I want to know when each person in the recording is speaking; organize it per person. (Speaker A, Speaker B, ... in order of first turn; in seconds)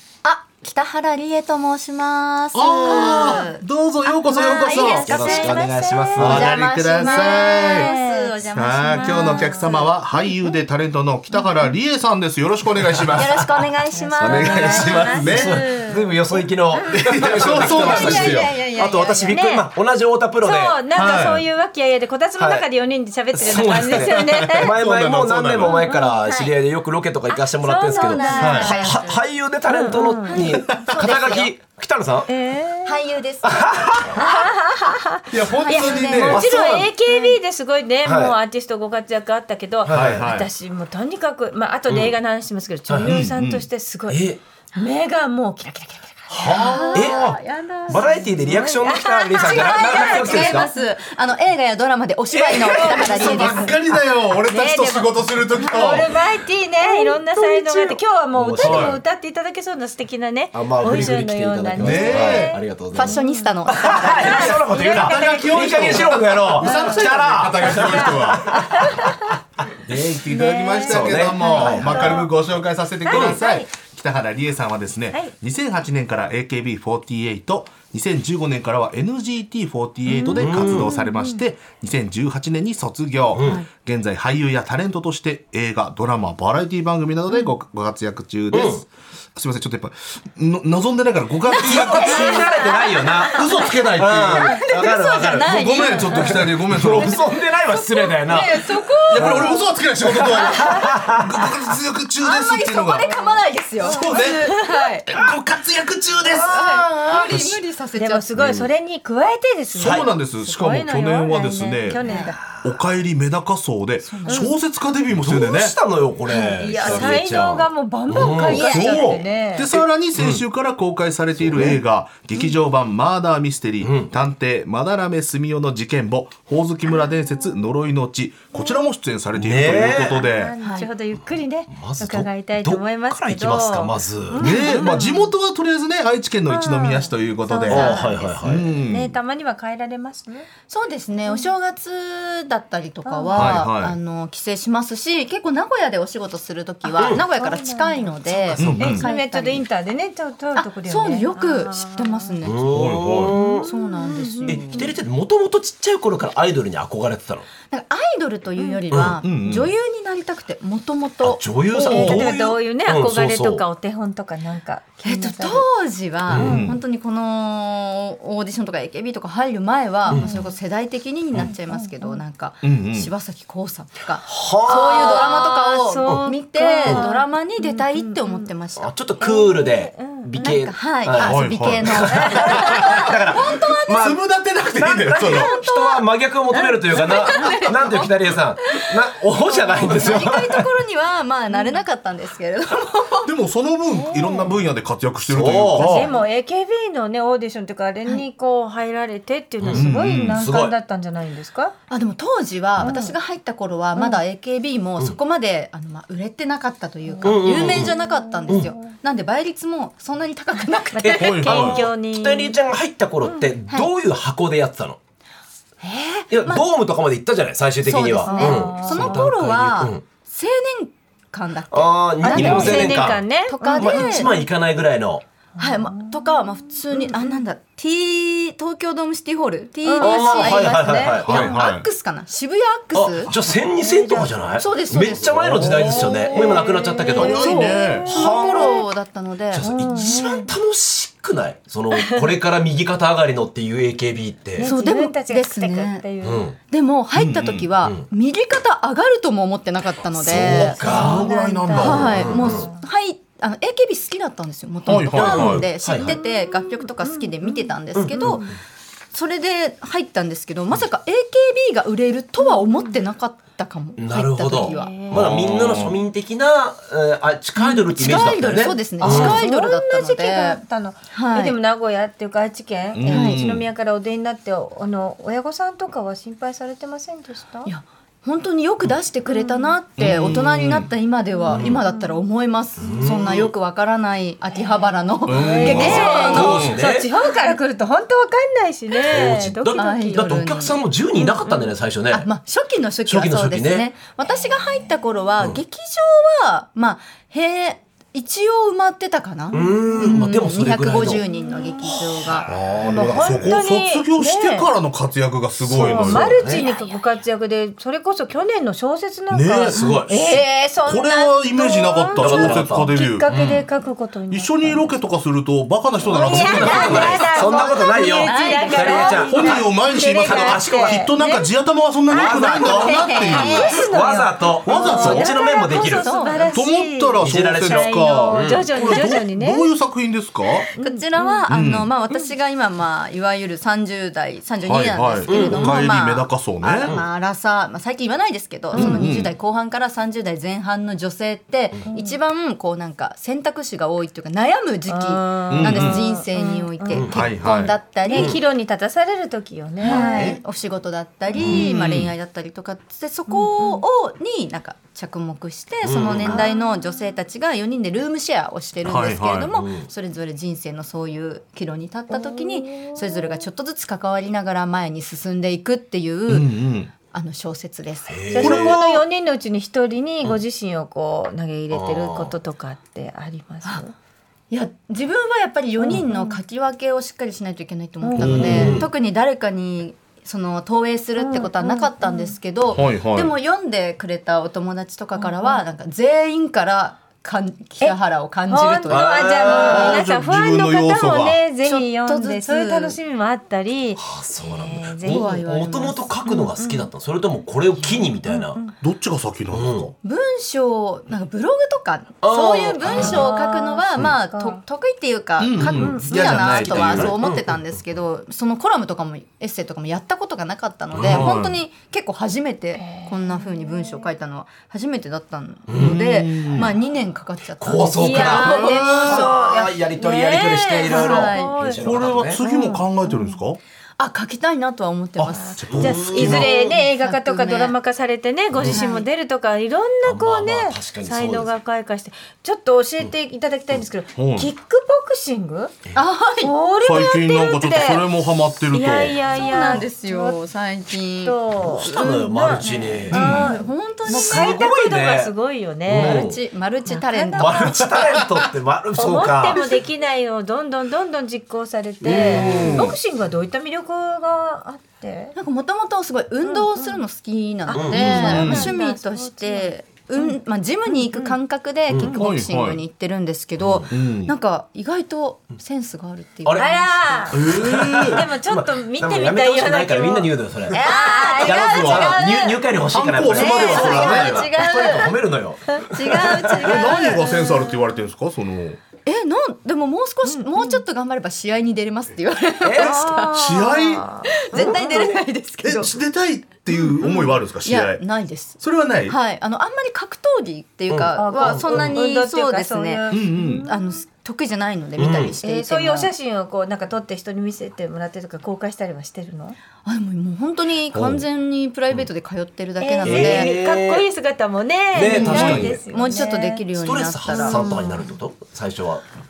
Speaker A: 0.2-3.6, 4.2-5.5, 6.2-10.3, 13.1-19.4, 26.2-26.5, 27.9-29.2, 30.3-31.5, 32.9-33.9, 35.6-36.6, 37.1-37.4, 46.5-48.7, 49.4-53.7, 55.6-56.1, 56.8-58.0, 62.9-64.6, 80.1-80.5, 91.5-93.7, 94.4-99.7, 100.3-100.8, 102.2-105.1, 106.3-108.3, 112.0-112.3, 114.0-114.5, 116.5-117.0, 118.5-119.1, 130.6-130.9, 137.7-138.2, 140.7-149.7, 150.6-152.7, 153.6-154.8, 157.7-162.1, 165.1-178.9, 180.4-184.2, 185.2-186.1, 186.8-188.1, 189.7-193.3, 201.9-211.8, 215.8-216.7, 217.8-224.3, 225.6-233.3, 234.6-240.2, 244.6-246.1, 246.6-258.5, 259.1-265.0, 267.6-270.6, 271.1-271.6, 273.1-273.4, 277.6-286.7, 288.9-291.4, 292.1-302.5, 306.5-307.0, 309.7-310.0, 316.8-319.6, 322.7-323.7, 324.9-326.6, 330.8-348.4, 349.8-366.5, 367.1-368.8, 374.5-389.6, 391.6-393.0, 395.0-396.2, 400.0-419.4, 420.9-421.6, 424.0-427.8, 428.7-429.1, 435.9-436.6, 439.2-444.6, 445.9-447.9, 455.4-467.3, 470.7-472.4, 473.3-475.1, 475.9-477.5, 479.1-485.9, 486.7-496.1, 499.9-503.5, 505.0-507.9
Speaker B: 2.5-5.4, 6.2-7.9, 8.5-13.6, 14.2-15.7, 16.9-18.6, 20.9-21.4, 24.4-25.8, 28.4-28.8, 30.7-31.0, 35.3-36.5, 39.9-40.5, 43.0-43.6, 46.3-46.9, 52.8-56.1, 58.6-59.0, 61.8-62.6, 64.9-68.8, 70.0-92.7, 93.2-94.7, 95.4-97.2, 99.1-103.1, 103.8-104.6, 105.1-106.5, 107.3-107.6, 109.7-115.8, 118.5-130.5, 134.4-139.2, 143.3-144.0, 148.5-149.1, 152.7-153.4, 159.0-159.7, 161.9-162.3, 166.3-166.8, 172.6-173.1, 181.2-183.1, 184.0-185.5, 193.2-196.1, 199.7-200.5, 211.2-211.8, 222.3-222.9, 231.2-231.9, 235.2-236.1, 237.2-238.1, 247.2-247.9, 250.2-252.6, 254.9-255.7, 265.1-266.0, 272.9-273.7, 280.0-280.9, 285.3-286.8, 302.5-306.4, 309.3-313.4, 314.3-317.3, 319.2-323.8, 324.6-325.3, 326.5-330.7, 331.5-331.9, 334.6-336.9, 338.7-339.3, 345.5-346.0, 347.1-347.8, 349.9-350.4, 351.4-352.1, 358.9-359.6, 366.3-366.9, 368.4-369.0, 378.2-378.8, 382.7-383.3, 389.6-391.4, 398.8-399.9, 402.9-403.3, 405.4-407.2, 411.0-411.6, 415.8-416.7, 421.8-423.6, 425.2-426.5, 434.2-434.5, 436.8-439.2, 443.1-443.5, 452.1-453.0, 457.9-458.7, 462.1-462.8, 463.9-464.4, 467.3-468.3, 471.6-472.0, 472.9-474.5, 476.6-478.8, 483.3-484.1, 485.6-488.0, 488.6-489.2, 493.1-493.7, 500.9-501.2, 505.2-505.7
Speaker C: 2.9-3.5, 4.3-9.8, 13.9-14.7, 17.8-18.3, 19.3-19.7, 20.4-24.8, 25.7-26.2, 27.6-28.9, 29.7-30.4, 32.3-33.0, 34.2-47.2, 48.6-50.8, 52.5-53.7, 54.5-67.0, 67.6-69.2, 70.3-72.3, 73.0-73.7, 80.1-81.4, 100.5-100.8, 103.9-104.9, 108.0-112.4, 114.3-114.5, 116.3-119.7, 130.2-135.3, 136.5-140.5, 143.1-143.6, 146.9-152.4, 153.3-154.9, 158.6-158.8, 161.8-165.7, 170.1-170.5, 171.5-172.2, 174.7-178.5, 179.2-180.3, 182.2-183.0, 189.9-190.2, 194.0-194.5, 195.8-201.7, 202.8-203.2, 204.0-204.2, 207.1-208.8, 210.9-212.6, 213.2-213.5, 218.2-219.2, 222.2-224.4, 225.6-226.2, 226.9-227.4, 229.8-231.5, 233.8-234.3, 235.8-238.8, 239.6-240.5, 244.6-246.5, 250.8-252.8, 256.0-258.6, 262.4-263.0, 264.6-265.2, 269.0-277.7, 279.3-279.7, 281.4-282.2, 285.3-290.4, 291.4-291.7, 301.3-301.9, 302.8-304.7, 305.6-314.9, 316.1-321.5, 322.1-329.7, 330.8-331.5, 338.7-339.0, 341.9-342.2, 344.9-347.1, 348.0-350.4, 353.3-353.8, 356.3-356.8, 362.1-363.4, 368.4-373.9, 375.8-376.4, 378.0-378.8, 381.2-382.3, 385.2-385.6, 388.5-395.4, 396.3-396.9, 398.3-398.7, 402.9-404.6, 405.8-406.1, 412.8-413.9, 418.0-421.8, 422.4-423.3, 425.3-435.7, 436.4-438.1, 438.7-440.4, 441.2-446.3, 446.9-447.8, 449.0-455.4, 456.4-457.0, 457.7-460.4, 460.9-461.4, 466.6-467.5, 468.1-472.6, 473.3-475.1, 475.7-477.8, 480.2-480.8, 482.8-485.1, 491.2-493.8, 495.4-499.6, 502.8-506.6, 507.3-508.1
Speaker D: 5.1-6.5, 14.2-20.8, 22.4-22.6, 23.4-32.3, 33.4-34.2, 36.1-36.9, 38.0-38.3, 39.9-40.2, 41.9-42.1, 44.1-44.4, 46.3-50.7, 52.3-53.2, 58.3-59.0, 60.5-70.4, 70.9-72.2, 73.1-73.4, 80.4-80.9, 83.3-83.6, 88.5-88.8, 91.5-99.5, 100.0-101.3, 105.2-105.4, 106.2-107.5, 108.4-108.7, 115.1-118.7, 119.7-120.4, 121.4-121.8, 123.8-124.1, 129.3-130.2, 131.7-134.4, 137.7-138.7, 147.0-147.2, 148.5-148.8, 152.4-153.7, 154.4-157.5, 158.9-159.3, 161.2-163.6, 166.3-166.6, 170.1-170.4, 174.3-175.5, 178.8-184.2, 184.7-190.7, 195.3-196.0, 199.6-200.8, 207.2-208.0, 211.0-215.0, 216.3-220.0, 221.7-225.2, 230.0-231.5, 232.9-237.5, 238.1-238.8, 239.5-244.7, 246.2-246.6, 250.2-252.7, 254.9-256.2, 257.9-258.5, 264.0-269.4, 280.1-280.7, 281.5-281.8, 282.8-283.5, 285.4-287.1, 289.1-292.3, 293.1-293.9, 299.5-301.2, 302.2-302.5, 305.7-306.6, 309.8-310.1, 312.2-313.6, 316.1-321.1, 322.1-326.1, 327.2-328.9, 335.3-335.8, 346.9-347.3, 348.1-348.4, 351.3-351.7, 355.8-356.5, 359.5-359.9, 368.1-368.7, 371.7-372.3, 378.2-378.9, 388.9-390.0, 394.0-398.6, 399.5-399.9, 402.2-403.3, 405.6-407.8, 410.9-411.3, 415.7-416.0, 417.6-422.4, 425.7-426.8, 428.5-428.8, 430.1-431.5, 441.6-443.4, 444.1-445.3, 445.9-446.4, 447.4-449.6, 452.0-452.8, 457.7-458.7, 461.9-462.1, 463.6-463.9, 467.3-476.9, 482.6-483.0, 484.5-485.2, 490.9-492.0, 495.0-495.4, 503.0-504.0, 504.9-505.8, 506.8-509.0